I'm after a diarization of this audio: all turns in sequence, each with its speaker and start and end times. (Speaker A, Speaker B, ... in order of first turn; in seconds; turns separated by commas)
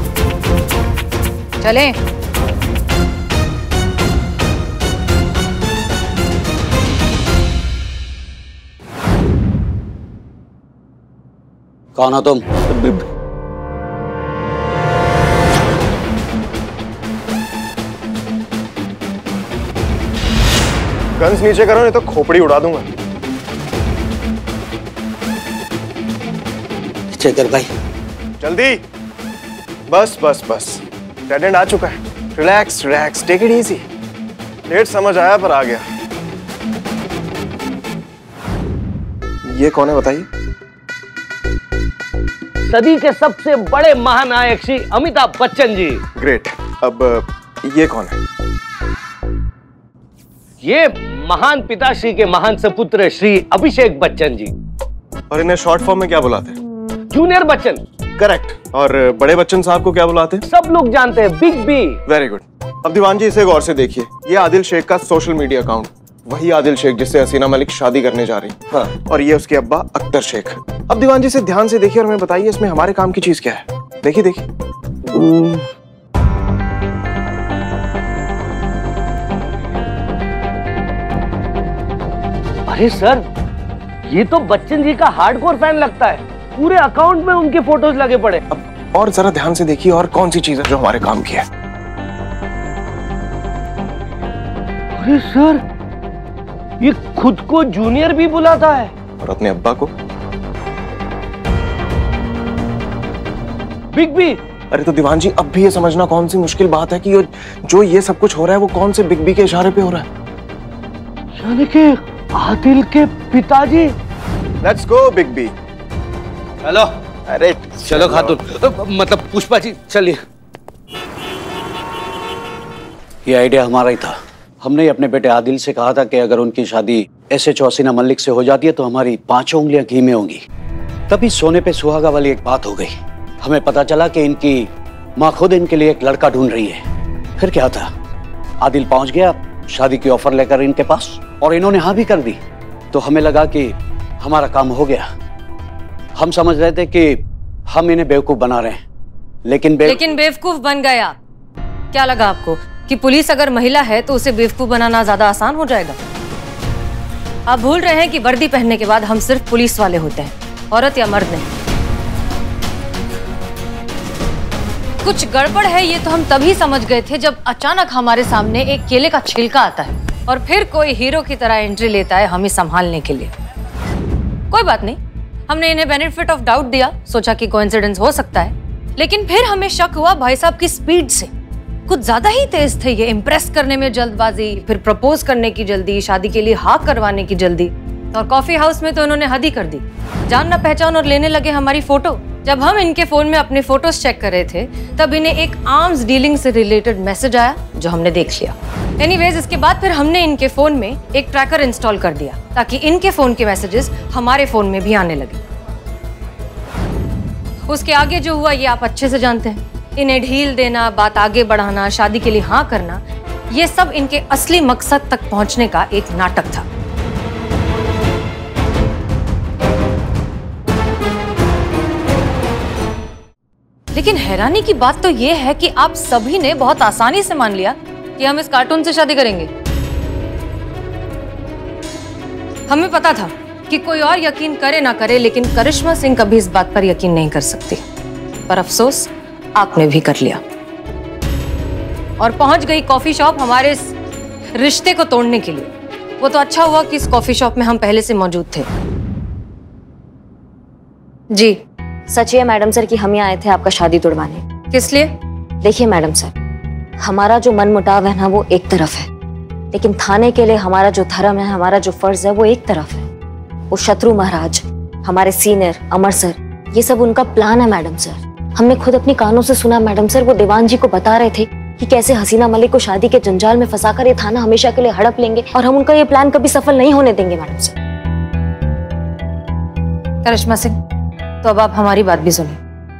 Speaker A: 1.6-1.9, Speaker B: 11.9-13.0, Speaker C: 21.2-22.9, Speaker B: 27.1-27.7, Speaker C: 28.4-28.8, Speaker C: 29.9-33.8, Speaker C: 34.7-35.8, Speaker C: 39.5-40.3, Speaker D: 42.7-46.0, Speaker C: 46.2-48.1, Speaker D: 50.6-54.5, Speaker C: 55.3-56.5, Speaker D: 57.1-57.8, Speaker C: 58.2-60.4, Speaker D: 60.5-62.0, Speaker C: 62.1-74.5, Speaker D: 82.7-83.2, Speaker D: 84.1-88.4, Speaker C: 88.5-91.5, Speaker D: 95.0-95.6, Speaker D: 96.8-98.9, Speaker C: 99.2-99.9, Speaker D: 103.9-104.4, Speaker C: 104.7-110.1, Speaker D: 111.4-113.9, Speaker C: 114.6-115.5, Speaker D: 116.6-116.9, Speaker C: 117.3-118.3, Speaker D: 117.9-120.2, Speaker B: 123.2-130.4, Speaker B: 131.1-136.8, Speaker B: 137.4-137.9, Speaker B: 138.6-142.4, Speaker B: 142.9-145.1, Speaker B: 146.2-148.8, Speaker B: 149.4-150.0, Speaker A: 149.8-151.2, Speaker A: 151.9-156.0, Speaker A: 157.5-161.5, Speaker A: 165.0-173.3, Speaker A: 174.5-181.3, Speaker A: 181.9-205.4, Speaker A: 207.7-216.7, Speaker A: 223.9-229.5, Speaker A: 232.7-237.8, Speaker A: 238.5-240.4, Speaker A: 242.2-243.9, Speaker A: 244.6-248.7, Speaker E: 252.1-254.4, Speaker A: 254.7-255.1, Speaker E: 255.6-256.3, Speaker E: 257.0-259.1, Speaker E: 259.7-263.1, Speaker E: 263.7-277.7, Speaker A: 280.2-280.7, Speaker A: 281.4-282.6